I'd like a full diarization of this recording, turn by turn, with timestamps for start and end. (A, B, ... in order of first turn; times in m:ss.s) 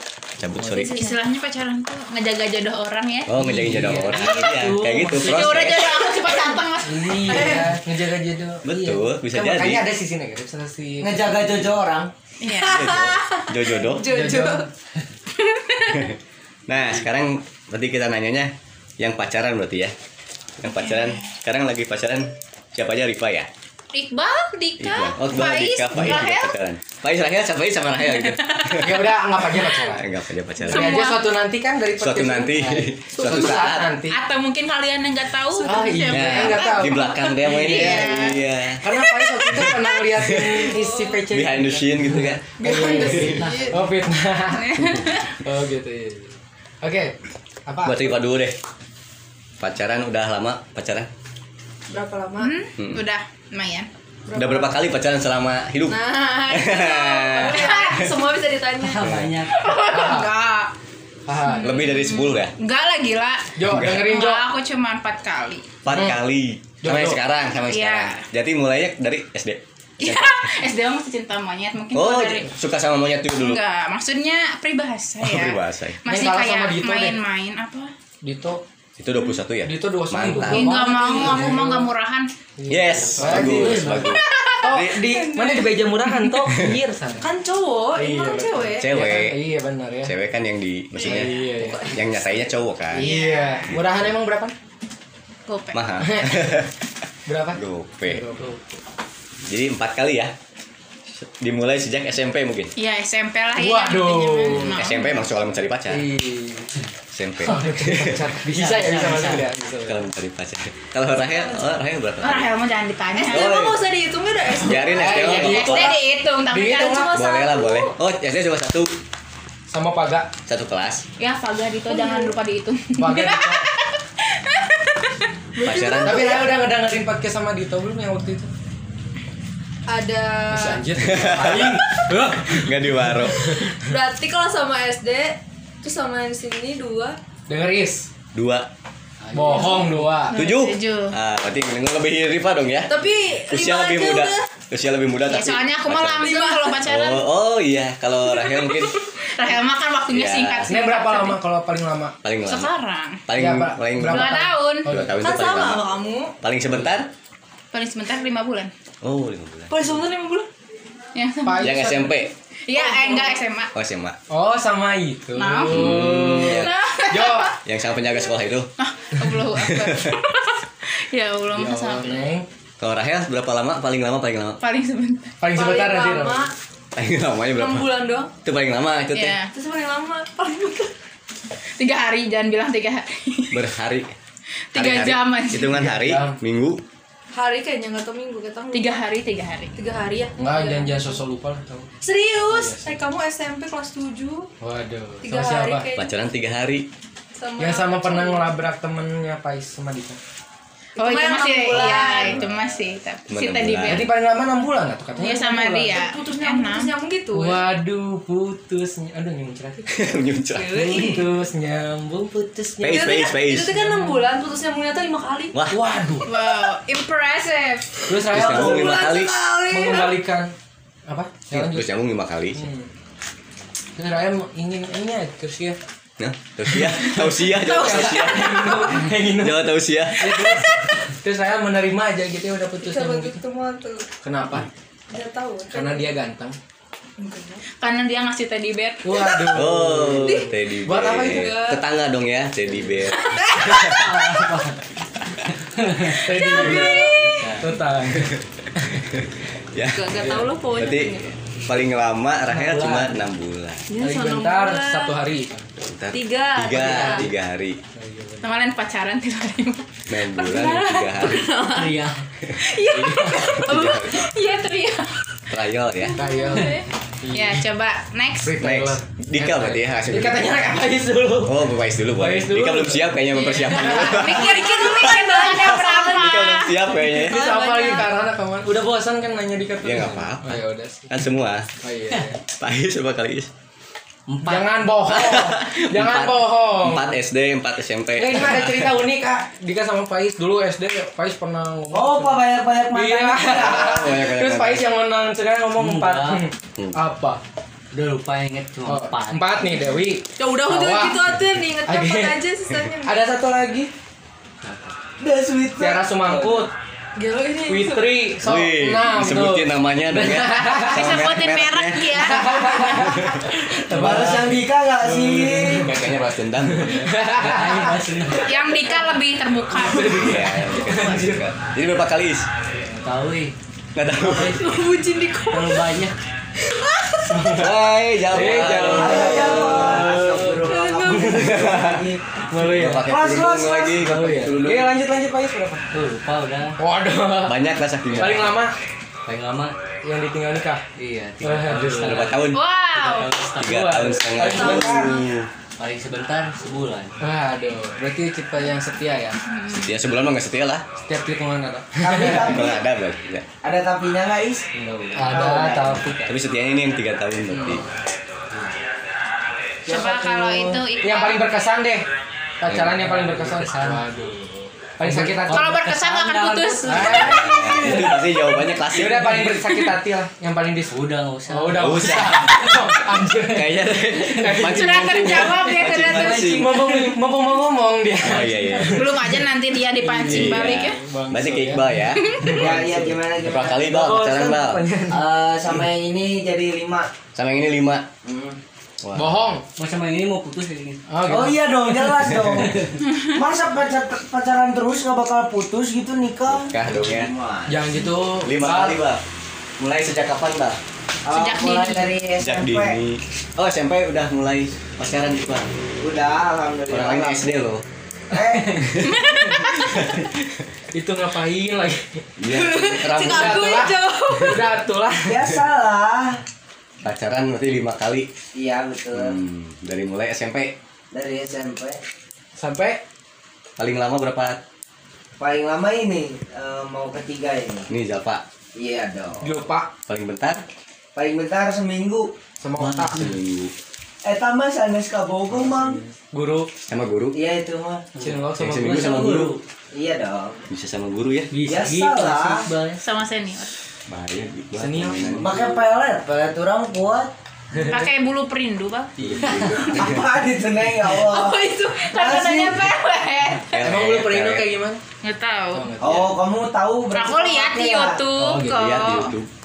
0:00.4-0:01.0 A
0:00.7-0:03.4 B
0:00.7-0:01.1 C
0:03.3-0:06.0 A
0:03.4-0:05.3 D
0:03.6-0:05.4 E
0:05.1-0:07.7 B
0:06.8-0:11.4 E
0:08.6-0:09.8 A
0:11.0-0:12.1 F
0:12.4-0:12.9 B
0:12.5-0:14.7 C
0:12.6-0:14.1 A
0:14.1-0:14.7 E
0:16.7-0:20.0 A
0:20.6-0:23.5 A
0:20.8-0:21.2 B
0:23.9-0:26.6 B
0:24.8-0:29.0 A
0:28.2-0:28.9 B
0:28.8-0:30.1 E
0:29.9-0:31.1 A
0:30.7-0:31.2 B
0:30.7-0:34.2 E
0:32.0-0:33.9 A
0:34.1-0:38.5 B
0:35.6-0:36.1 C
0:35.6-0:47.2 E
0:36.1-0:38.8 A
0:39.5-0:40.7 A
0:40.7-0:41.2 C
0:41.3-0:42.4 A
0:42.6-0:43.8 C
0:43.2-0:43.7 D
0:44.6-0:45.3 B
0:47.7-0:48.2 E
0:47.8-0:48.6 A
0:49.6-0:51.1 A
0:51.9-0:52.5 C
0:52.4-0:53.9 B
0:54.3-0:54.8 C
0:54.3-0:58.0 A
0:55.9-0:59.1 C
0:57.6-0:58.0 B
0:58.8-0:59.7 D
0:59.0-0:59.3 A
0:59.5-1:00.7 B
0:59.9-1:00.3 E
1:01.3-1:01.8 E
1:01.4-1:05.7 B
1:01.6-1:02.5 A
1:03.6-1:04.4 E
1:03.7-1:04.0 A
1:05.8-1:10.4 A
1:05.9-1:06.2 E
1:06.8-1:07.2 E
1:07.6-1:08.2 B
1:10.0-1:12.5 B
1:11.9-1:13.6 A
1:13.4-1:17.9 B
1:15.2-1:16.0 A
1:16.1-1:17.2 E
1:18.2-1:18.6 E
1:19.0-1:20.8 A
1:19.6-1:21.9 E
1:20.5-1:22.3 B
1:22.6-1:24.0 E
1:22.7-1:25.0 A
1:23.1-1:24.2 D
1:24.2-1:24.6 B
1:24.6-1:27.3 E
1:25.2-1:25.6 C
1:27.2-1:28.9 C
1:28.0-1:30.1 E
1:28.8-1:29.4 A
1:30.0-1:33.1 A
1:31.0-1:32.1 E
1:31.2-1:31.9 C
1:32.9-1:34.5 E
1:33.0-1:33.7 B
1:35.5-1:35.8 B
1:35.7-1:36.7 A
1:36.0-1:36.6 E
1:37.3-1:38.5 E
1:37.5-1:38.3 A
1:39.4-1:40.4 A
1:41.1-1:42.7 A
1:42.8-1:45.2 B
1:43.6-1:44.8 E
1:44.6-1:46.1 A
1:45.9-1:46.7 E
1:47.1-1:48.2 A
1:47.4-1:50.1 E
1:48.4-1:49.5 D
1:49.9-1:52.5 A
1:52.2-1:53.7 B
1:53.2-1:55.4 C
1:53.3-1:53.8 A
1:54.6-1:56.0 A
1:54.9-1:57.1 E
1:55.3-1:57.1 B
1:56.8-1:58.0 C
1:57.1-1:59.0 A
1:59.7-2:00.3 E
2:00.5-2:01.0 A
2:01.2-2:05.1 B
2:01.9-2:02.4 C
2:03.0-2:03.7 E
2:05.6-2:06.5 C
2:05.6-2:06.4 A
2:06.0-2:08.5 E
2:09.9-2:10.9 C
2:10.5-2:13.7 E
2:11.0-2:13.4 A
2:13.7-2:17.2 C
2:17.5-2:18.1 E
2:18.4-2:18.7 A
2:19.2-2:20.1 D
2:19.3-2:20.4 E
2:20.3-2:21.2 B
2:20.3-2:23.0 A
2:22.9-2:24.5 C
2:23.5-2:29.0 A
2:25.2-2:27.2 B
2:26.2-2:26.8 C
2:28.4-2:31.4 B
2:30.1-2:30.7 A
2:30.7-2:32.2 E
2:32.2-2:32.7 A
2:32.4-2:33.2 B
2:33.3-2:35.9 A
2:33.4-2:35.2 E
2:34.1-2:34.9 B
2:35.2-2:36.3 C
2:36.4-2:37.1 A
2:37.7-2:38.7 B
2:39.0-2:39.8 A
2:39.7-2:40.5 C
2:41.2-2:42.1 B
2:41.4-2:42.1 E
2:41.6-2:42.3 A
2:42.7-2:43.7 B
2:42.7-2:43.4 C
2:43.7-2:44.2 A
2:44.3-2:47.5 E
2:45.4-2:47.5 B
2:45.6-2:46.7 A
2:47.6-2:48.7 A
2:48.8-2:52.2 B
2:49.6-2:50.2 A
2:51.5-2:52.5 E
2:52.8-2:54.6 A
2:54.6-2:55.4 B
2:55.4-2:56.5 E
2:55.5-2:56.5 C
2:57.0-2:59.4 A
2:57.6-2:58.3 C
2:59.1-2:59.5 B
2:59.5-3:00.9 C
3:01.8-3:03.6 B
3:03.5-3:04.2 A
3:04.7-3:05.8 B
3:04.8-3:06.8 A
3:05.7-3:06.4 E
3:07.3-3:08.9 C
3:08.7-3:09.7 B
3:09.8-3:11.2 C
3:10.4-3:11.9 E
3:12.0-3:14.5 C
3:12.5-3:12.9 E
3:14.6-3:15.9 E
3:15.2-3:16.1 C
3:15.9-3:16.9 A
3:17.4-3:18.5 C
3:17.6-3:20.2 E
3:21.0-3:22.4 C
3:21.0-3:24.1 B
3:22.0-3:22.5 E
3:23.3-3:24.1 A
3:23.9-3:26.0 E
3:25.2-3:26.9 B
3:25.9-3:27.6 C
3:27.3-3:30.0 E
3:29.9-3:31.0 A
3:30.5-3:31.3 C
3:30.7-3:34.1 E
3:32.8-3:33.8 A
3:32.8-3:35.6 C
3:35.7-3:36.3 E
3:36.3-3:37.6 B
3:36.5-3:40.2 C
3:38.1-3:39.1 E
3:38.3-3:39.4 A
3:39.7-3:40.5 E
3:41.1-3:41.9 E
3:41.5-3:42.6 A
3:42.6-3:42.9 E
3:44.0-3:45.8 E
3:46.2-3:50.6 A
3:46.7-3:53.4 E
3:47.5-3:49.0 C
3:52.8-3:54.1 C
3:54.2-3:54.7 E
3:55.1-3:56.1 C
3:55.7-3:56.6 E
3:57.2-3:57.6 C
3:57.8-3:59.0 B
3:59.0-4:01.6 E
3:59.5-4:04.1 A
4:00.2-4:00.5 C
4:01.2-4:01.8 C
4:03.2-4:04.5 C
4:03.8-4:04.9 D
4:05.6-4:07.8 D
4:06.0-4:09.1 E
4:06.3-4:07.6 C
4:09.1-4:13.9 A
4:09.9-4:11.3 C
4:12.5-4:13.2 D
4:13.9-4:15.2 C
4:14.0-4:15.7 E
4:15.8-4:17.8 A
4:16.1-4:17.3 C
4:16.8-4:17.2 E
4:18.0-4:18.5 E
4:18.4-4:20.0 B
4:20.1-4:21.5 A
4:20.4-4:22.0 C
4:21.7-4:22.2 D
4:22.6-4:25.2 B
4:22.8-4:24.1 C
4:23.6-4:24.3 A
4:25.5-4:26.2 A
4:26.1-4:26.9 C
4:26.2-4:27.6 E
4:27.3-4:28.6 B
4:28.4-4:34.2 E
4:28.6-4:30.5 A
4:31.4-4:37.6 A
4:33.6-4:36.8 B
4:34.1-4:36.2 C
4:37.0-4:38.1 C
4:37.1-4:41.1 E
4:39.8-4:41.7 A
4:41.8-4:42.4 E
4:42.5-4:43.5 A
4:44.3-4:44.8 D
4:44.4-4:47.1 E
4:45.1-4:49.0 A
4:48.2-4:57.4 E
4:51.9-4:53.8 F
4:53.5-4:54.8 A
4:55.8-4:56.4 D
4:57.9-4:59.6 D
4:58.9-5:01.3 E
5:00.4-5:03.3 C
5:01.8-5:02.4 E
5:03.0-5:03.9 E
5:04.6-5:05.0 D
5:05.2-5:06.7 F
5:05.8-5:06.7 E
5:07.2-5:08.3 C
5:07.7-5:11.2 E
5:08.4-5:12.3 A
5:10.8-5:13.2 B
5:12.1-5:16.1 E
5:13.1-5:13.4 A
5:13.9-5:15.9 F
5:15.8-5:17.1 A
5:16.7-5:18.0 E
5:17.2-5:18.6 D
5:18.4-5:20.6 B
5:19.7-5:21.5 E
5:20.1-5:22.5 A
5:22.9-5:23.5 D
5:24.0-5:24.6 A
5:24.2-5:24.7 D
5:24.4-5:25.9 C
5:25.5-5:26.2 D
5:26.7-5:27.4 C
5:27.3-5:27.8 E
5:27.5-5:30.2 A
5:28.3-5:30.6 E
5:28.6-5:32.3 F
5:29.8-5:30.4 D
5:30.6-5:31.6 C
5:31.2-5:31.6 E
5:31.2-5:35.0 A
5:32.5-5:33.1 E
5:33.0-5:34.1 F
5:34.1-5:34.6 D
5:34.5-5:35.9 E
5:35.9-5:36.8 D
5:36.8-5:37.6 E
5:37.5-5:38.6 A
5:38.1-5:38.8 E
5:39.3-5:39.8 D
5:40.0-5:40.9 E
5:41.0-5:44.0 D
5:41.4-5:42.4 E
5:41.9-5:42.6 A
5:42.5-5:43.3 B
5:43.6-5:45.5 A
5:43.6-5:45.1 E
5:44.4-5:45.1 F
5:44.5-5:45.1 C
5:45.8-5:47.2 D
5:47.2-5:49.4 E
5:49.4-5:49.9 B
5:49.7-5:50.8 A
5:51.0-5:52.6 E
5:52.0-5:52.8 F
5:52.2-5:53.5 A
5:53.6-5:56.0 F
5:54.8-5:56.3 D
5:55.1-5:56.2 E
5:56.3-5:57.8 A
5:57.5-5:57.8 E
5:59.9-6:00.8 F
5:59.9-6:01.5 B
6:01.0-6:02.1 E
6:02.6-6:05.8 E
6:02.8-6:04.1 D
6:05.0-6:08.0 D
6:05.5-6:07.5 B
6:06.8-6:19.4 E
6:07.1-6:09.6 A
6:10.9-6:12.9 D
6:11.8-6:12.8 A
6:13.5-6:16.8 A
6:14.6-6:16.6 B
6:16.0-6:17.1 D
6:18.2-6:19.2 A
6:18.8-6:21.0 B
6:20.0-6:23.2 E
6:20.3-6:22.5 A
6:22.2-6:22.6 B
6:22.5-6:24.2 F
6:23.4-6:24.8 A
6:23.7-6:25.3 E
6:25.1-6:27.1 F
6:27.4-6:28.1 A
6:28.2-6:28.6 F
6:29.0-6:29.3 A
6:29.2-6:29.6 E
6:29.8-6:31.0 D
6:31.1-6:32.0 E
6:31.3-6:37.8 F
6:36.5-6:37.3 A
6:37.7-6:39.0 E
6:38.4-6:39.2 A
6:39.8-6:40.8 A
6:41.2-6:43.0 F
6:41.3-6:42.2 B
6:42.4-6:45.7 A
6:46.0-6:47.5 F
6:46.9-6:47.8 A
6:48.3-6:49.2 F
6:49.1-6:50.0 B
6:49.9-6:50.2 A
6:50.9-6:52.3 E
6:52.4-6:53.7 A
6:52.5-6:54.7 C
6:53.0-6:55.4 E
6:55.2-6:56.4 F
6:57.0-6:58.3 A
6:58.6-6:59.4 F
6:59.2-7:00.7 A
7:01.1-7:02.0 F
7:02.6-7:03.0 E
7:03.8-7:04.6 A
7:05.4-7:07.9 F
7:07.9-7:08.4 A
7:08.8-7:09.5 F
7:09.4-7:09.9 E
7:10.1-7:10.6 A
7:11.2-7:12.3 F
7:12.6-7:13.3 E
7:12.8-7:13.2 D
7:13.1-7:13.7 A
7:14.2-7:16.0 F
7:16.2-7:16.7 E
7:16.9-7:17.4 A
7:17.3-7:18.1 F
7:18.2-7:19.5 E
7:18.2-7:19.6 D
7:18.6-7:19.6 A
7:19.9-7:20.6 F
7:20.7-7:21.5 A
7:21.5-7:23.0 D
7:21.6-7:22.7 F
7:23.0-7:23.8 B
7:24.1-7:25.7 A
7:24.8-7:25.5 E
7:25.3-7:27.3 F
7:27.8-7:28.0 E
7:27.8-7:29.1 B
7:29.2-7:30.1 E
7:29.2-7:30.1 A
7:29.4-7:29.8 D
7:29.7-7:32.9 F
7:31.1-7:33.8 B
7:33.7-7:34.7 A
7:33.8-7:35.0 E
7:35.2-7:35.9 B
7:35.7-7:36.3 E
7:36.0-7:38.2 F
7:36.0-7:36.3 A
7:37.1-7:39.3 B
7:38.4-7:38.8 E
7:38.4-7:39.5 A